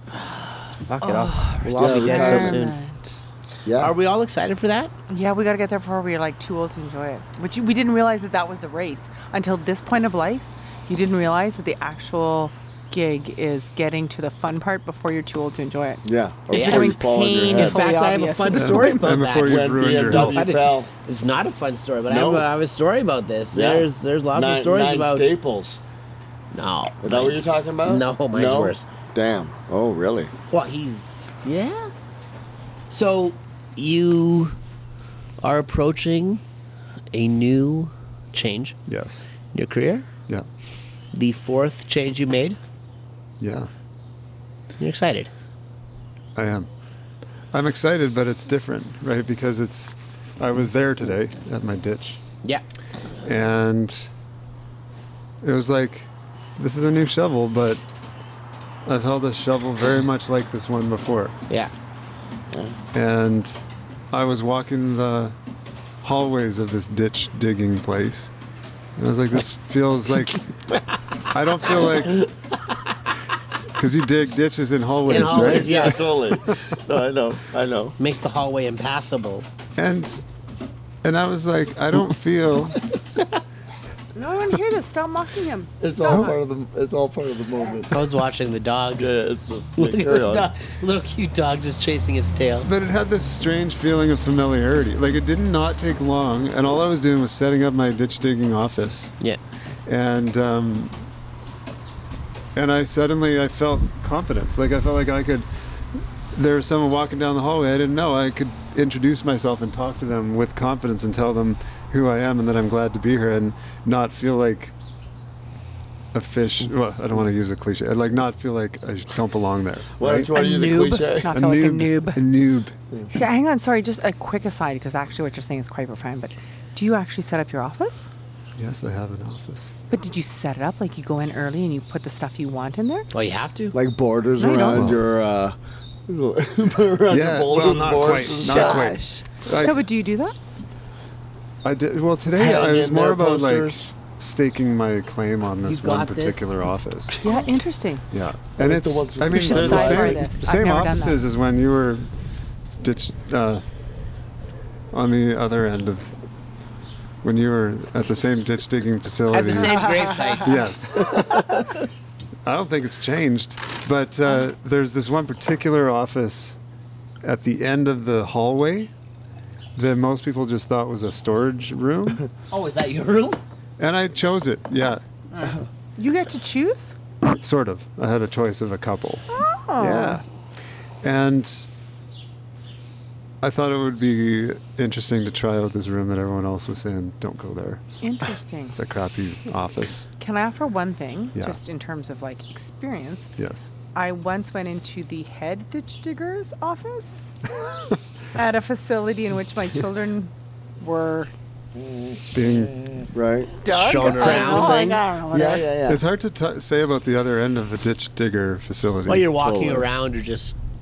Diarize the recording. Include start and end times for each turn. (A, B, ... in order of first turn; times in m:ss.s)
0:00.9-0:02.8 A
0:01.0-0:03.1 B
0:01.8-0:02.7 C
0:03.6-0:03.9 C
0:03.8-0:04.9 A
0:05.1-0:19.2 B
0:16.0-0:17.9 C
0:16.5-0:25.3 A
0:18.5-0:20.4 D
0:19.4-0:20.9 C
0:22.1-0:22.5 C
0:23.5-0:25.8 C
0:26.5-0:28.9 A
0:27.0-0:30.3 C
0:30.5-0:31.9 A
0:32.9-0:34.6 A
0:35.4-0:36.4 A
0:37.1-0:38.8 A
0:38.9-0:39.2 D
0:39.5-0:40.1 A
0:41.1-0:42.6 A
0:43.4-0:43.7 D
0:44.8-0:45.3 A
0:46.4-0:46.7 D
0:47.5-0:52.2 D
0:53.2-0:54.1 D
0:55.4-0:57.8 D
0:58.8-1:01.4 D
1:02.5-1:02.8 C
1:02.9-1:03.6 D
1:04.1-1:05.4 D
1:06.0-1:08.3 D
1:09.0-1:10.5 D
1:11.3-1:12.3 D
1:13.8-1:16.8 D
1:15.1-1:16.2 A
1:15.1-1:18.0 C
1:18.0-1:19.5 A
1:19.8-1:20.2 D
1:21.0-1:22.8 D
1:24.2-1:26.4 B
1:25.8-1:28.0 C
1:26.1-1:26.3 D
1:27.9-1:29.1 A
1:29.0-1:30.5 C
1:29.8-1:32.7 A
1:32.6-1:39.2 D
1:39.9-1:41.0 D
1:42.6-1:54.7 D
1:56.1-2:00.3 D
2:00.0-2:01.4 C
2:00.3-2:02.2 B
2:01.3-2:02.8 D
2:03.1-2:08.1 B
2:08.6-2:09.7 D
2:09.9-2:13.1 B
2:13.1-2:13.8 A
2:13.7-2:18.9 C
2:14.4-2:14.9 B
2:14.7-2:15.0 D
2:17.1-2:19.8 D
2:18.3-2:20.4 B
2:21.6-2:27.2 D
2:22.4-2:23.9 C
2:25.6-2:26.7 A
2:27.2-2:28.0 B
2:28.1-2:32.1 D
2:28.6-2:30.3 C
2:29.3-2:31.2 B
2:32.8-2:33.6 D
2:34.9-2:36.2 D
2:37.2-2:39.8 D
2:39.3-2:40.6 A
2:39.5-2:40.6 B
2:40.4-2:41.4 D
2:42.4-2:46.6 D
2:47.2-2:48.9 D
2:49.8-2:52.3 D
2:52.5-2:53.4 A
2:53.8-2:55.0 D
2:56.0-2:57.0 B
2:57.4-2:59.3 D
2:59.3-3:00.2 B
2:59.8-3:00.2 D
3:01.0-3:01.7 D
3:03.4-3:07.8 D
3:08.0-3:08.8 B
3:08.7-3:10.1 D
3:10.2-3:13.3 B
3:13.4-3:13.6 D
3:14.0-3:17.6 B
3:18.3-3:21.3 B
3:22.3-3:23.0 D
3:23.1-3:23.5 C
3:23.6-3:25.7 B
3:23.6-3:25.0 A
3:24.2-3:26.0 C
3:25.9-3:29.3 D
3:29.1-3:30.6 A
3:29.4-3:29.9 C